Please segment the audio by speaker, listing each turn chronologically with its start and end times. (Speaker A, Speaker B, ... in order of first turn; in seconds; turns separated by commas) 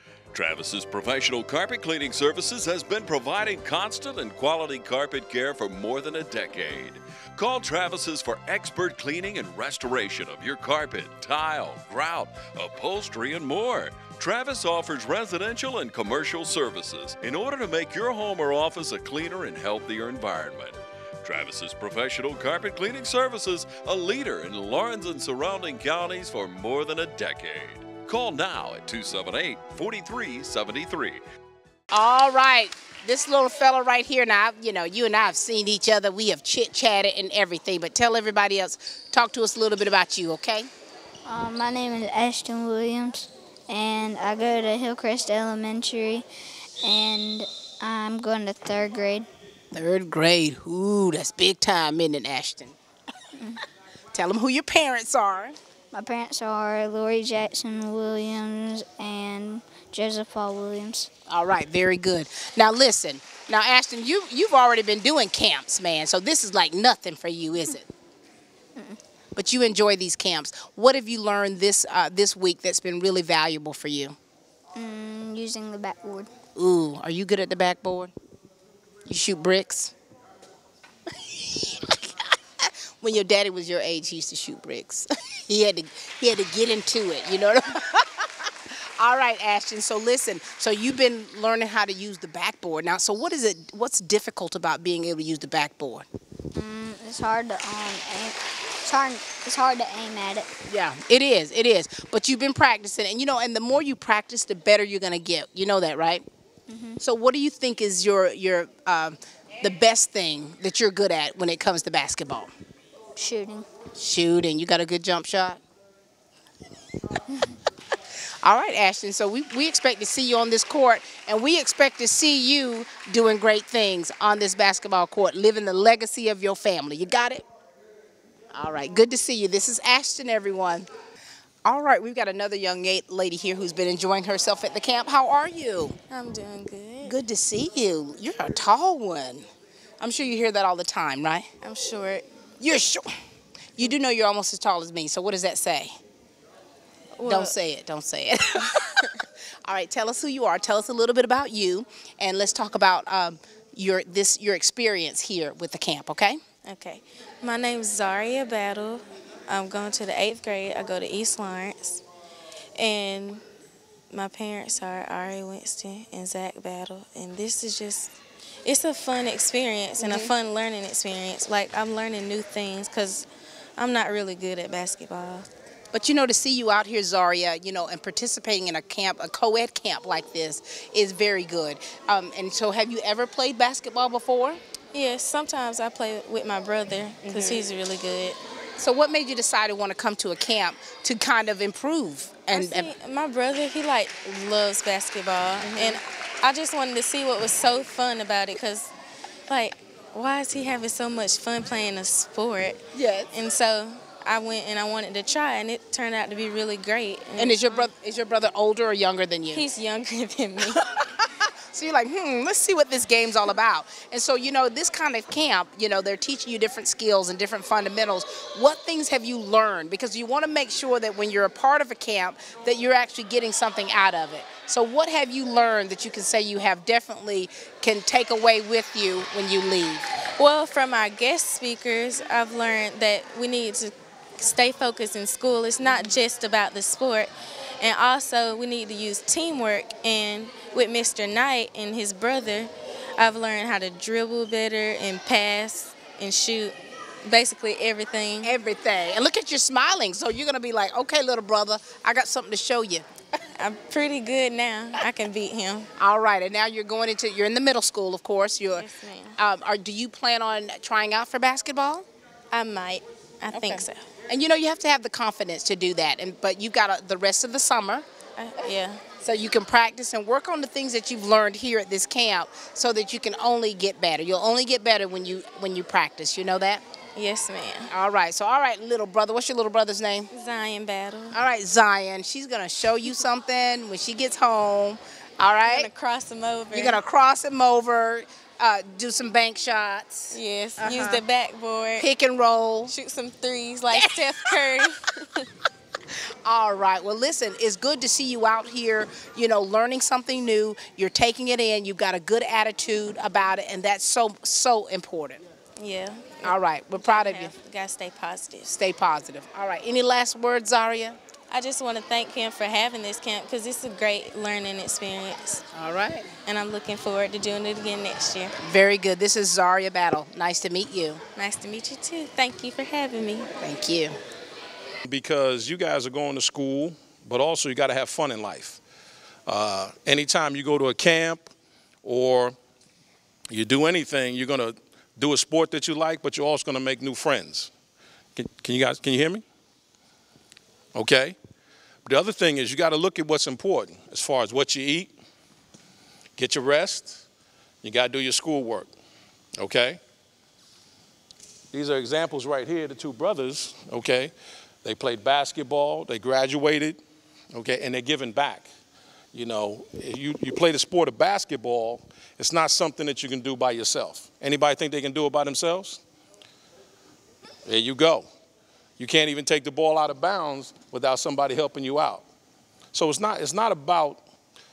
Speaker A: 0.3-31.2, Speaker B: 31.9-40.7, Speaker C: 41.3-46.2, Speaker C: 46.8-49.3, Speaker B: 49.7-52.8, Speaker B: 54.1-55.6, Speaker C: 55.9-61.1, Speaker B: 61.3-67.9, Speaker B: 69.4-74.2, Speaker C: 74.8-76.3, Speaker B: 76.6-78.1, Speaker B: 79.1-79.9, Speaker B: 81.3-88.2, Speaker B: 89.0-96.0, Speaker C: 96.5-100.5, Speaker B: 100.7-106.2, Speaker C: 106.7-107.0, Speaker B: 107.0-112.5, Speaker C: 113.2-113.7, Speaker B: 114.0-115.6, Speaker B: 118.4-127.5, Speaker B: 128.5-130.9, Speaker B: 131.7-136.0, Speaker D: 136.1-137.2, Speaker B: 137.0-139.5, Speaker B: 140.0-141.5, Speaker D: 141.6-142.2, Speaker B: 142.6-143.1, Speaker B: 143.8-145.9, Speaker D: 147.2-147.6, Speaker B: 147.3-156.4, Speaker D: 156.7-162.0, Speaker D: 162.8-163.4, Speaker D: 164.1-168.1, Speaker D: 168.7-173.3, Speaker B: 170.0-170.3, Speaker D: 173.8-175.5, Speaker B: 175.9-184.6, Speaker D: 184.9-188.4, Speaker B: 187.2-187.6, Speaker B: 188.8-192.9, Speaker D: 192.5-198.9, Speaker B: 195.6-196.0, Speaker D: 199.5-202.8, Speaker B: 202.9-203.3, Speaker D: 203.3-207.9, Speaker B: 207.4-209.6, Speaker D: 209.5-210.8, Speaker B: 210.8-230.1, Speaker D: 230.4-246.7, Speaker B: 235.8-236.1, Speaker D: 247.2-248.6, Speaker B: 248.4-253.1, Speaker D: 253.6-255.9, Speaker B: 256.0-258.9, Speaker D: 258.7-259.4, Speaker B: 259.4-262.1, Speaker D: 262.5-264.1, Speaker B: 263.5-268.1, Speaker D: 268.4-269.0, Speaker B: 269.2-276.8, Speaker D: 277.1-277.9, Speaker B: 277.9-280.3, Speaker D: 280.3-281.4, Speaker B: 281.3-285.9, Speaker D: 285.6-287.0, Speaker B: 286.7-291.2, Speaker D: 290.3-292.1, Speaker B: 292.0-292.9, Speaker D: 292.9-295.4, Speaker B: 293.9-294.5, Speaker B: 296.4-305.4, Speaker D: 305.8-308.8, Speaker B: 306.4-307.5, Speaker B: 308.7-311.2, Speaker D: 311.5-315.6, Speaker B: 315.7-316.3, Speaker D: 316.5-318.6, Speaker B: 318.6-321.2, Speaker D: 321.4-323.5, Speaker B: 323.6-324.2, Speaker E: 325.1-328.8, Speaker E: 329.5-331.4, Speaker E: 332.0-332.6, Speaker E: 333.5-337.7, Speaker E: 338.4-339.4, Speaker E: 340.9-341.4, Speaker E: 342.1-345.1, Speaker E: 346.4-347.2, Speaker E: 347.8-348.9, Speaker E: 349.6-350.0, Speaker E: 351.7-354.3, Speaker E: 354.8-357.0, Speaker E: 357.5-358.7, Speaker E: 359.3-366.0, Speaker E: 367.7-368.3, Speaker E: 369.0-372.2, Speaker E: 372.9-374.2